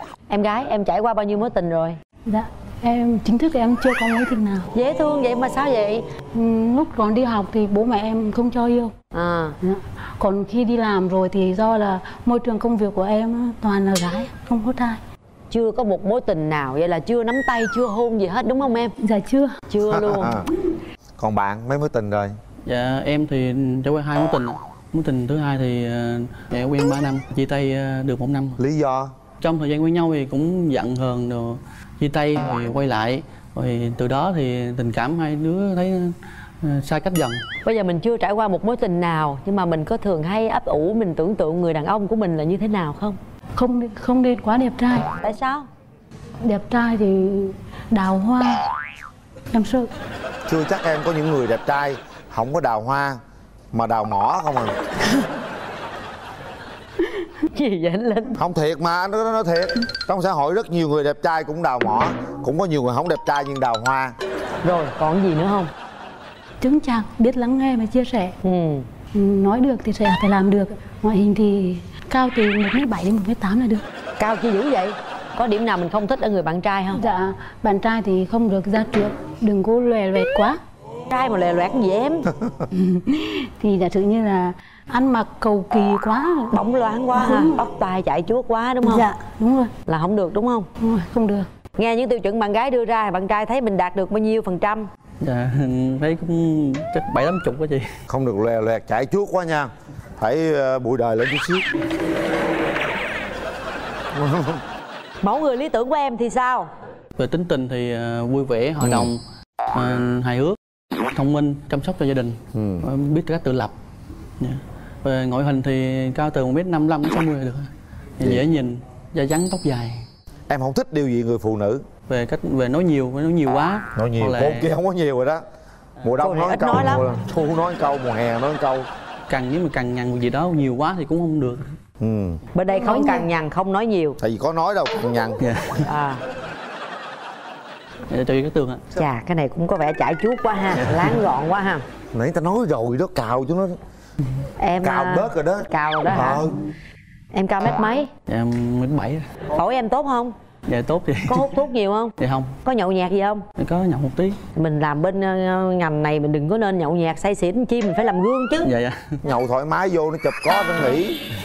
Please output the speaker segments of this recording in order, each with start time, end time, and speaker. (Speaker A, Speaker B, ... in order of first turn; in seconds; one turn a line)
Speaker A: 0.3-2.0
Speaker B: 2.3-4.7
Speaker A: 4.7-6.0
Speaker B: 6.3-8.9
Speaker A: 9.1-9.5
Speaker B: 9.6-15.0
Speaker A: 15.5-18.9
Speaker B: 19.0-19.6
Speaker A: 19.7-20.4
Speaker C: 19.9-20.5
Speaker C: 21.2-22.3
Speaker D: 22.6-28.6
Speaker C: 28.6-29.1
Speaker D: 29.4-37.4
Speaker A: 37.7-43.2
Speaker B: 43.5-45.1
Speaker A: 45.2-45.7
Speaker B: 46.4-48.6
Speaker B: 49.5-49.9
Speaker C: 50.5-53.2
Speaker C: 53.7-54.7
Speaker A: 57.5-58.3
Speaker C: 58.4-64.2
Speaker A: 64.6-65.7
Speaker B: 66.6-68.3
Speaker A: 68.4-68.8
Speaker B: 69.1-73.8
Speaker A: 74.2-77.0
Speaker B: 76.9-80.6
Speaker A: 81.1-82.2
Speaker B: 82.7-86.6
Speaker A: 86.5-89.1
Speaker B: 87.1-87.6
Speaker B: 88.8-89.7
Speaker A: 89.9-90.7
Speaker B: 90.8-91.5
Speaker A: 91.8-94.8
Speaker D: 95.2-97.8
Speaker C: 98.1-101.7
Speaker C: 104.1-104.6
Speaker A: 105.2-106.7
Speaker D: 107.2-109.2
Speaker C: 108.8-109.1
Speaker D: 109.7-110.6
Speaker D: 111.1-113.7
Speaker C: 112.5-112.8
Speaker D: 114.4-120.0
Speaker C: 120.5-121.8
Speaker D: 122.1-124.7
Speaker C: 124.0-125.4
Speaker C: 126.0-128.9
Speaker A: 126.2-127.0
Speaker D: 129.3-131.6
Speaker C: 132.0-132.4
Speaker A: 132.6-134.2
Speaker B: 132.7-133.3
Speaker C: 134.2-135.4
Speaker D: 135.4-135.9
Speaker A: 135.9-136.2
Speaker D: 138.1-138.8
Speaker A: 139.0-141.8
Speaker D: 140.7-141.2
Speaker C: 142.1-143.8
Speaker A: 144.6-146.4
Speaker C: 144.8-146.5
Speaker A: 147.3-148.1
Speaker D: 147.7-149.2
Speaker A: 149.6-150.3
Speaker D: 150.7-151.7
Speaker A: 151.3-152.1
Speaker D: 152.2-152.6
Speaker A: 152.7-153.4
Speaker D: 153.6-154.4
Speaker A: 154.6-158.7
Speaker D: 158.6-159.2
Speaker C: 159.2-161.2